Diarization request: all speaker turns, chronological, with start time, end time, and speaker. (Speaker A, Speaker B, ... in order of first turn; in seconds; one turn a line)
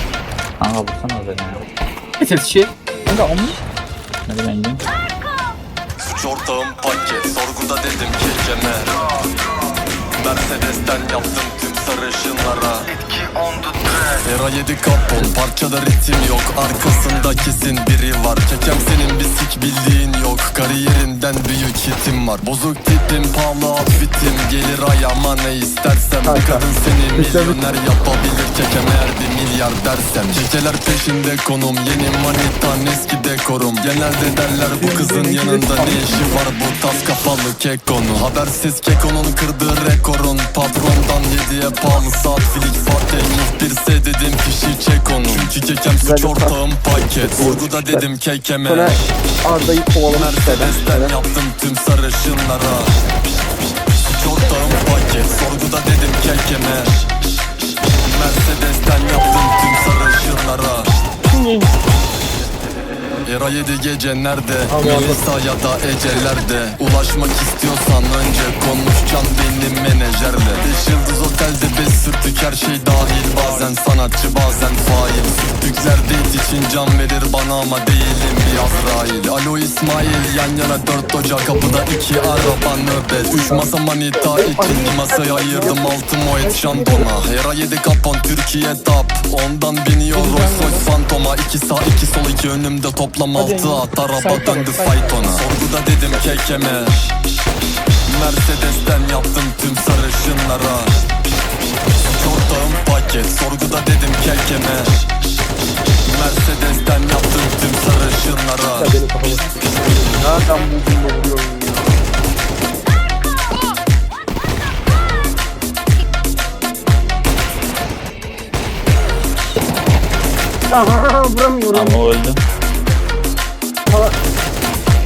Speaker A: 0.6-1.7
Speaker A: 4.2-4.8
Speaker B: 6.0-9.0
Speaker B: 10.2-12.9
Speaker B: 14.2-49.1
Speaker C: 26.2-27.6
Speaker C: 34.8-36.2
Speaker C: 46.0-46.6
Speaker C: 47.1-48.0
Speaker C: 48.7-51.1
Speaker B: 50.0-53.0
Speaker B: 54.0-57.0
Speaker B: 58.0-60.9
Speaker B: 63.2-97.1
Speaker C: 64.7-65.2
Speaker C: 83.4-83.7
Speaker C: 84.3-85.8
Speaker C: 86.4-87.0
Speaker C: 94.3-95.1
Speaker B: 98.0-101.0
Speaker B: 102.0-105.0
Speaker B: 106.0-108.9
Speaker C: 108.8-112.0
Speaker C: 120.7-122.0
Speaker A: 121.7-122.4